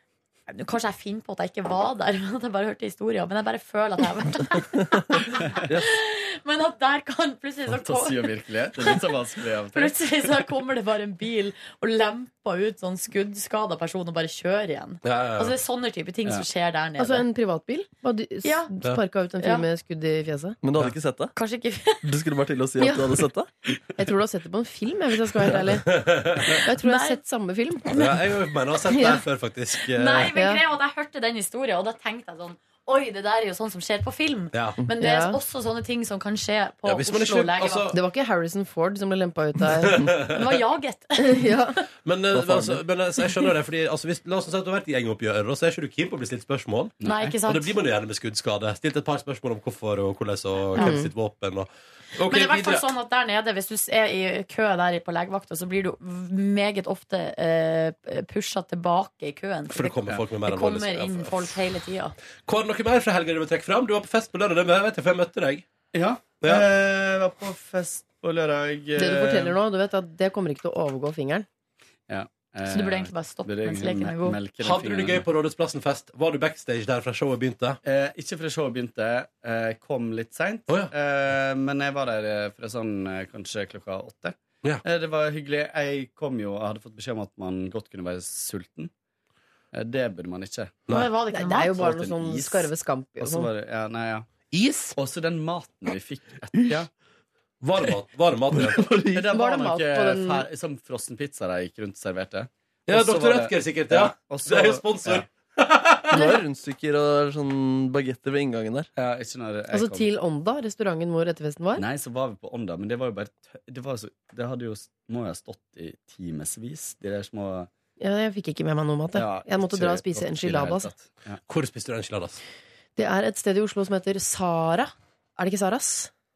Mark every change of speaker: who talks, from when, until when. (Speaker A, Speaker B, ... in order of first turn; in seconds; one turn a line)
Speaker A: 0.5-9.0
Speaker B: 7.7-10.5
Speaker A: 9.7-17.3
Speaker C: 15.0-15.5
Speaker D: 17.0-20.6
Speaker A: 18.4-18.7
Speaker E: 20.6-21.3
Speaker A: 21.4-22.0
Speaker E: 22.0-23.5
Speaker D: 22.8-23.2
Speaker D: 24.0-26.1
Speaker C: 25.9-26.5
Speaker D: 26.6-28.0
Speaker A: 26.8-27.2
Speaker C: 27.9-30.4
Speaker A: 29.9-37.9
Speaker D: 30.3-30.6
Speaker C: 34.5-34.8
Speaker D: 35.0-35.4
Speaker C: 36.9-38.0
Speaker D: 37.9-40.1
Speaker C: 39.8-40.6
Speaker A: 40.3-41.5
Speaker D: 41.2-41.8
Speaker C: 42.0-52.9
Speaker E: 42.4-42.8
Speaker B: 47.0-47.3
Speaker A: 47.0-47.7
Speaker D: 50.8-51.1
Speaker A: 52.3-62.2
Speaker C: 59.7-61.6
Speaker C: 62.5-65.7
Speaker B: 65.9-69.6
Speaker D: 69.0-71.5
Speaker B: 72.1-75.3
Speaker A: 72.7-74.4
Speaker C: 74.6-77.8
Speaker B: 77.8-88.9
Speaker B: 89.7-90.9
Speaker A: 90.9-91.7
Speaker D: 90.9-93.5
Speaker B: 91.6-94.3
Speaker C: 94.5-95.0
Speaker B: 95.0-96.9
Speaker C: 97.6-98.8
Speaker E: 98.5-99.3
Speaker B: 99.1-105.3
Speaker D: 99.3-100.5
Speaker C: 102.9-106.3
Speaker E: 106.1-108.9
Speaker D: 106.2-106.4
Speaker B: 109.0-110.1
Speaker D: 109.7-111.8
Speaker B: 111.8-117.7
Speaker D: 118.0-120.9
Speaker B: 119.1-121.4
Speaker C: 121.5-122.4
Speaker D: 123.0-126.1